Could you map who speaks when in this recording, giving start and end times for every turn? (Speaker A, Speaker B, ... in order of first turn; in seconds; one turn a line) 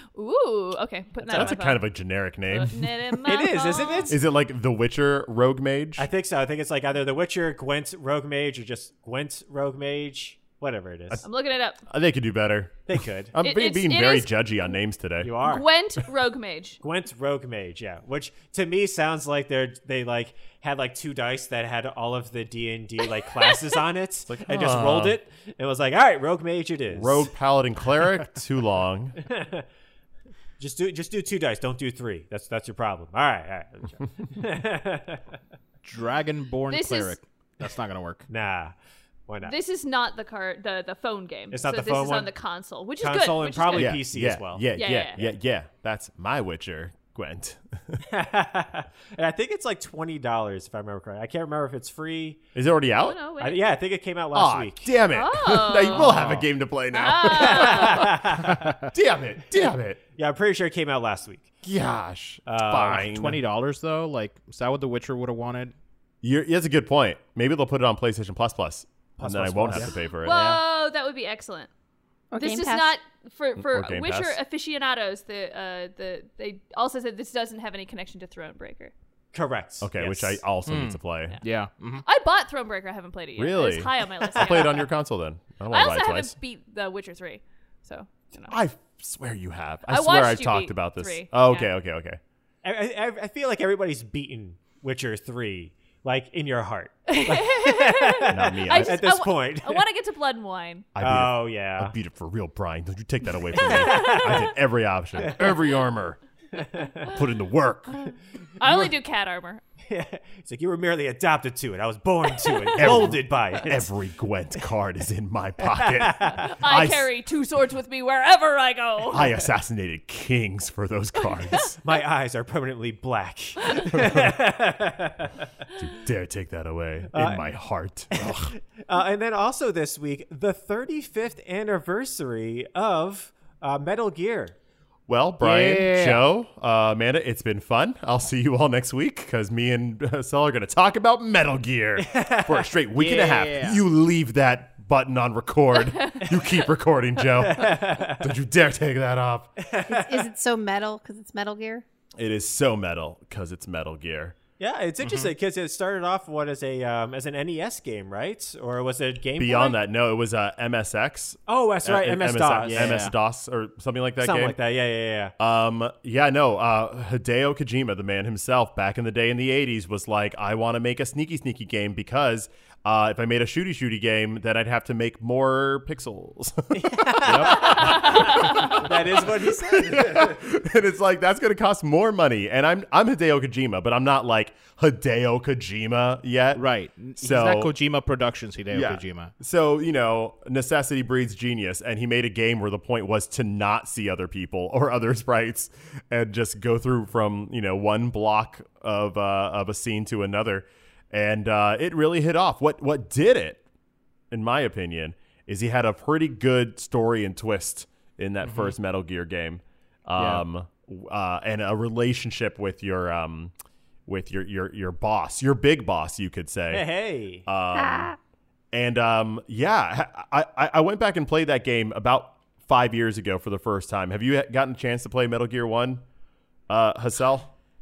Speaker A: 0.1-4.1
Speaker B: 1.3-3.2
Speaker C: 3.2-4.2
Speaker B: 4.1-6.1
Speaker C: 6.0-11.2
Speaker A: 11.2-11.8
Speaker B: 11.9-15.3
Speaker C: 12.9-13.3
Speaker A: 13.4-14.8
Speaker C: 15.2-15.7
Speaker A: 15.4-16.8
Speaker C: 16.8-27.3
Speaker B: 24.3-25.2
Speaker B: 26.9-29.2
Speaker C: 29.2-29.6
Speaker C: 30.6-35.2
Speaker D: 35.8-38.3
Speaker A: 36.7-37.2
Speaker C: 38.3-38.7
Speaker C: 39.3-39.5
Speaker A: 39.4-44.0
Speaker C: 41.5-42.3
Speaker C: 43.0-45.4
Speaker B: 43.7-48.0
Speaker A: 44.8-45.2
Speaker C: 48.1-52.4
Speaker B: 52.5-53.2
Speaker A: 53.0-53.6
Speaker C: 53.4-54.9
Speaker B: 54.3-58.3
Speaker A: 55.1-56.3
Speaker D: 56.1-56.5
Speaker A: 56.9-58.1
Speaker C: 57.3-58.7
Speaker B: 58.9-60.0
Speaker C: 60.1-61.5
Speaker B: 61.6-63.4
Speaker C: 62.5-63.0
Speaker D: 62.9-65.8
Speaker B: 66.2-70.5
Speaker C: 69.2-70.0
Speaker D: 69.7-70.6
Speaker A: 70.2-71.7
Speaker E: 72.3-72.9
Speaker A: 72.4-78.9
Speaker B: 73.6-74.4
Speaker C: 79.3-80.4
Speaker B: 79.8-81.4
Speaker D: 80.7-82.0
Speaker A: 82.1-84.9
Speaker B: 83.4-86.3
Speaker A: 85.7-88.5
Speaker B: 88.5-92.2
Speaker A: 89.9-91.7
Speaker C: 92.6-99.8
Speaker A: 97.1-100.9
Speaker B: 98.3-99.0
Speaker B: 101.0-106.2
Speaker C: 101.0-102.0
Speaker C: 103.6-104.5
Speaker A: 103.6-104.4
Speaker C: 105.2-105.5
Speaker C: 106.5-107.2
Speaker B: 107.0-108.0
Speaker A: 108.0-109.6
Speaker C: 108.6-108.9
Speaker C: 109.9-113.9
Speaker A: 112.6-112.9
Speaker B: 112.8-117.1
Speaker C: 115.7-116.5
Speaker A: 116.4-119.4
Speaker B: 119.1-121.8
Speaker C: 121.8-125.5
Speaker B: 123.9-124.3
Speaker B: 125.8-128.5
Speaker C: 127.1-127.5
Speaker C: 128.1-134.6
Speaker B: 135.1-149.5
Speaker D: 135.4-136.2
Speaker C: 142.0-142.7
Speaker D: 142.9-143.8
Speaker C: 147.4-148.3
Speaker C: 149.6-150.3
Speaker E: 149.9-151.8
Speaker B: 152.2-154.4
Speaker C: 154.6-159.8
Speaker D: 155.0-155.3
Speaker B: 159.4-164.6
Speaker C: 161.5-163.1
Speaker D: 162.7-163.2
Speaker C: 164.2-165.3
Speaker B: 165.4-186.7
Speaker C: 176.7-180.4
Speaker D: 177.2-177.9
Speaker A: 177.9-178.3
Speaker D: 186.6-189.3
Speaker B: 187.2-187.7
Speaker B: 188.7-203.6
Speaker B: 204.3-213.5
Speaker D: 208.4-208.8
Speaker D: 210.2-210.4
Speaker B: 214.1-218.2
Speaker C: 216.7-217.5
Speaker E: 217.8-218.1
Speaker B: 218.7-226.0
Speaker B: 226.7-227.5